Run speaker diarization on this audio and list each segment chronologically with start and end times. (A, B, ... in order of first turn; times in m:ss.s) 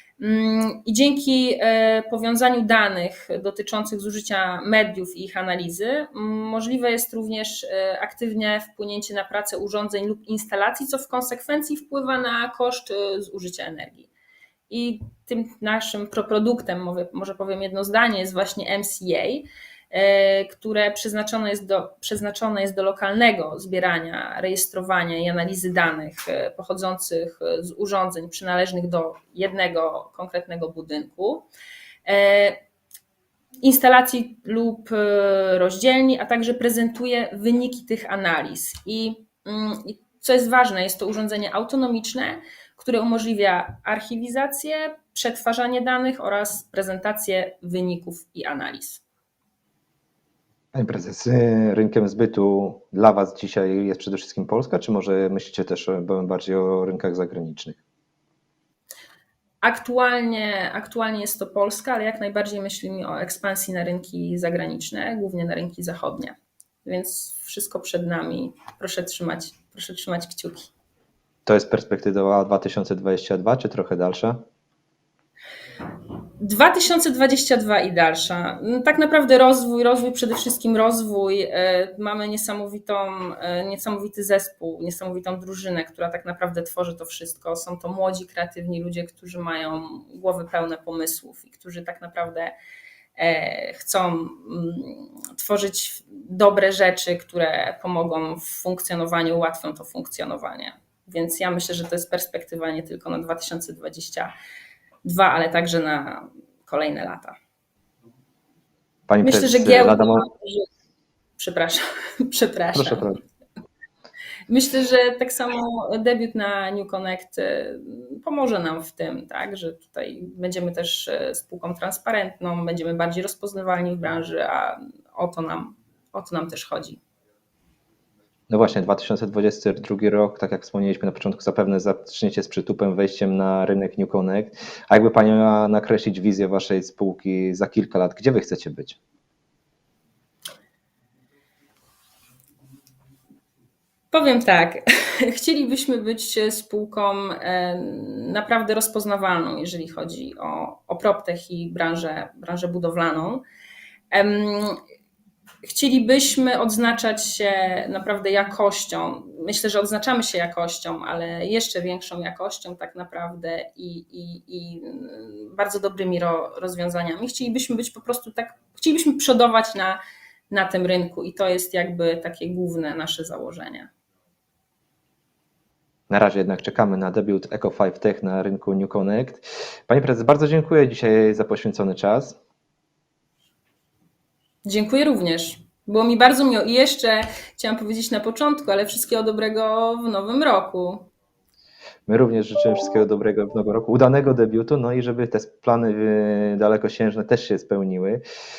0:00.2-0:14.1 A
0:14.7-0:31.5 A
0:32.0-0:32.6 A
0:33.6-0:49.0 A
0:50.7-0:57.8 B
0:59.6-1:10.7 A
1:11.4-1:14.4 B
1:16.4-1:32.5 A
1:33.2-1:44.3 A
1:45.0-1:47.3 A
1:49.1-1:50.2 B
1:49.2-1:50.6 A
1:51.4-1:53.1 A
1:52.7-1:53.2 B
1:54.5-2:07.0 A
2:08.5-2:19.0 B
2:24.1-2:33.4 A
2:34.1-2:34.8 A
2:35.6-2:53.9 A
2:56.1-3:02.4 B
3:04.6-3:11.1 A
3:12.1-3:18.2 B